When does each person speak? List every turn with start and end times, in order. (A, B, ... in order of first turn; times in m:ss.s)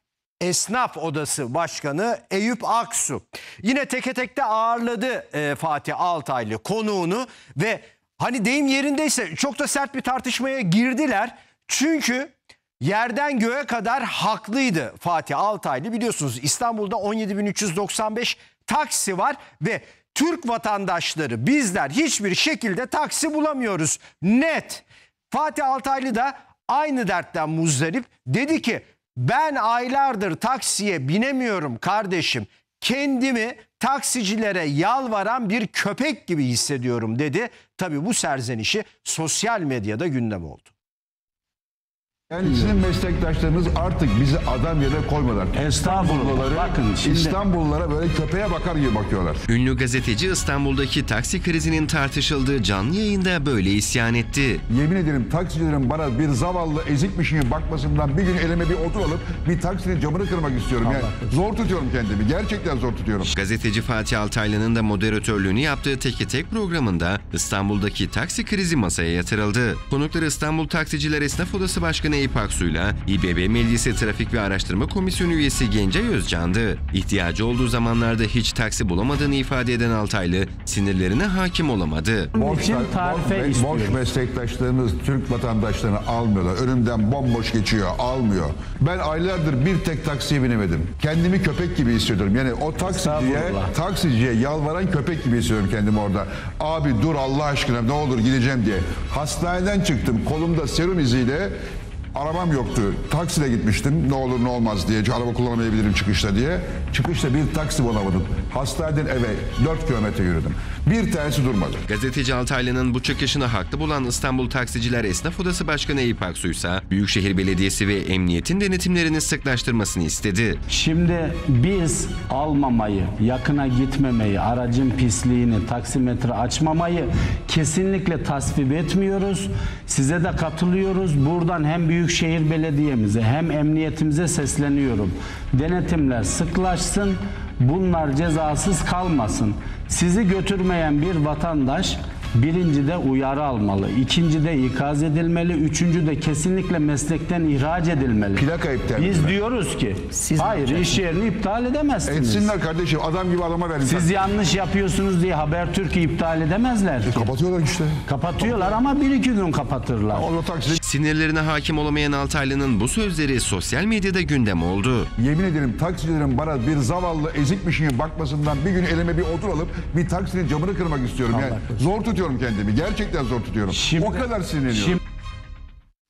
0:00.4-0:40.7 A
0:42.3-0:49.4 B
0:42.4-0:42.8 C
0:45.6-0:47.4 C
0:49.5-0:54.6 D
0:54.7-1:03.3 B
1:03.2-1:22.3 D
1:22.3-1:24.0 C
1:22.4-1:41.6 B
1:32.8-1:33.7 C
1:42.1-1:51.8 B
1:51.9-2:00.6 D
2:00.7-2:32.5 C
2:28.4-2:29.4 B
2:32.1-2:34.1 B
2:33.8-2:37.3 C
2:37.1-2:38.6 B
2:38.1-2:40.3 C
2:40.1-2:40.8 B
2:40.8-2:45.1 D
2:45.2-2:55.0 B
2:51.4-2:51.8 C
2:53.8-2:55.0 C